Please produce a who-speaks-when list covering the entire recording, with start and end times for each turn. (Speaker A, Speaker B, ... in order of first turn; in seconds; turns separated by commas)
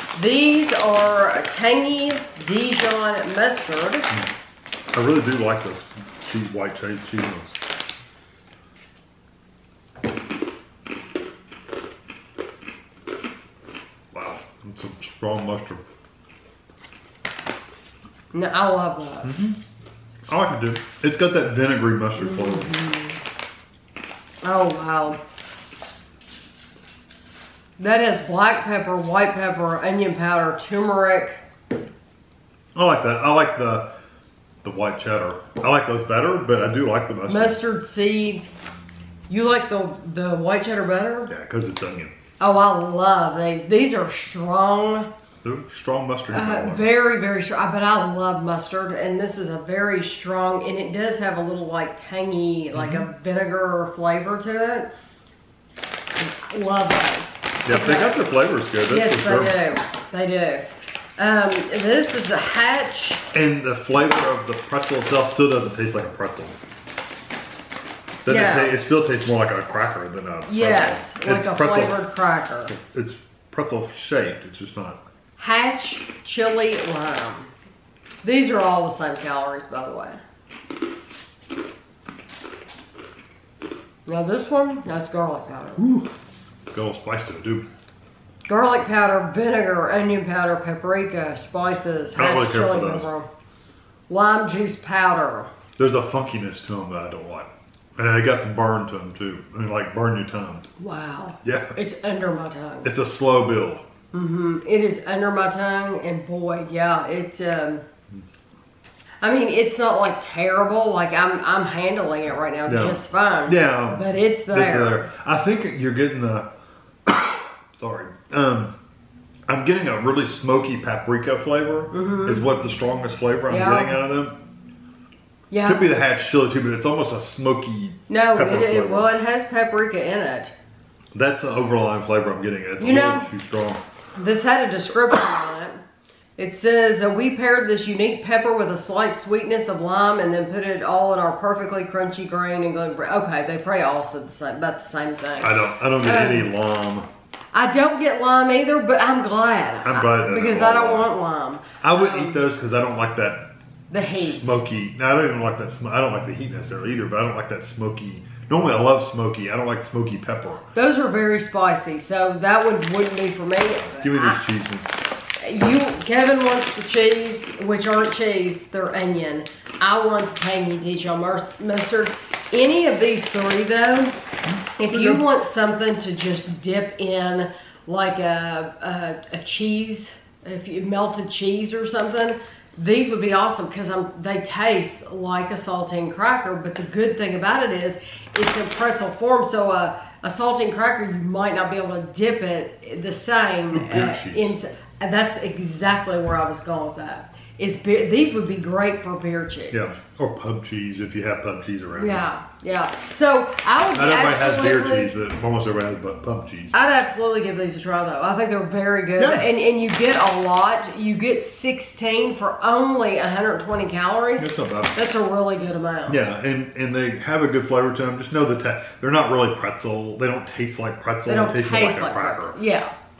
Speaker A: 0.1-4.1, Speaker B: 4.9-7.6, Speaker B: 14.1-15.8, Speaker A: 18.3-19.3, Speaker B: 19.2-19.6, Speaker B: 20.3-22.7, Speaker A: 22.2-23.2, Speaker A: 24.4-25.2, Speaker A: 27.8-31.4, Speaker B: 32.8-33.9, Speaker B: 34.6-37.6, Speaker A: 37.3-38.5, Speaker A: 39.3-41.3, Speaker B: 41.3-42.1, Speaker A: 42.4-45.1, Speaker B: 45.4-46.9, Speaker A: 46.3-54.9, Speaker B: 52.7-53.0, Speaker A: 56.2-58.2, Speaker B: 57.6-59.6, Speaker A: 58.9-63.2, Speaker B: 63.3-66.6, Speaker B: 68.2-72.0, Speaker A: 68.3-68.8, Speaker A: 70.5-72.7, Speaker B: 72.7-75.0, Speaker A: 75.4-77.5, Speaker A: 78.2-80.2, Speaker A: 84.1-85.9, Speaker B: 85.8-86.1, Speaker B: 86.7-87.7, Speaker A: 88.5-93.3, Speaker B: 92.2-93.1, Speaker A: 94.1-95.5, Speaker B: 95.8-100.7, Speaker A: 100.8-102.9, Speaker B: 101.4-101.8, Speaker B: 102.8-103.8, Speaker A: 104.1-107.8, Speaker A: 109.2-115.0, Speaker B: 112.7-116.5, Speaker B: 117.1-118.7, Speaker B: 119.5-124.4, Speaker A: 121.9-122.4, Speaker A: 123.5-124.0, Speaker A: 125.5-125.9, Speaker B: 125.6-129.1, Speaker A: 128.1-130.5, Speaker B: 131.1-133.8, Speaker A: 132.8-133.3, Speaker A: 134.2-135.8, Speaker A: 136.4-146.5, Speaker B: 145.4-147.1, Speaker A: 147.5-152.4, Speaker B: 149.8-151.1, Speaker B: 151.8-153.5, Speaker A: 153.9-154.6, Speaker B: 154.2-160.7, Speaker A: 160.8-164.4, Speaker B: 163.9-164.9, Speaker A: 165.4-174.2, Speaker A: 174.8-200.0, Speaker B: 174.9-175.2, Speaker B: 193.7-194.6, Speaker B: 199.7-202.3, Speaker A: 202.0-205.1, Speaker B: 203.9-206.8, Speaker A: 206.7-216.2, Speaker B: 209.2-209.5, Speaker B: 214.4-215.0, Speaker B: 216.1-222.6, Speaker A: 221.3-222.9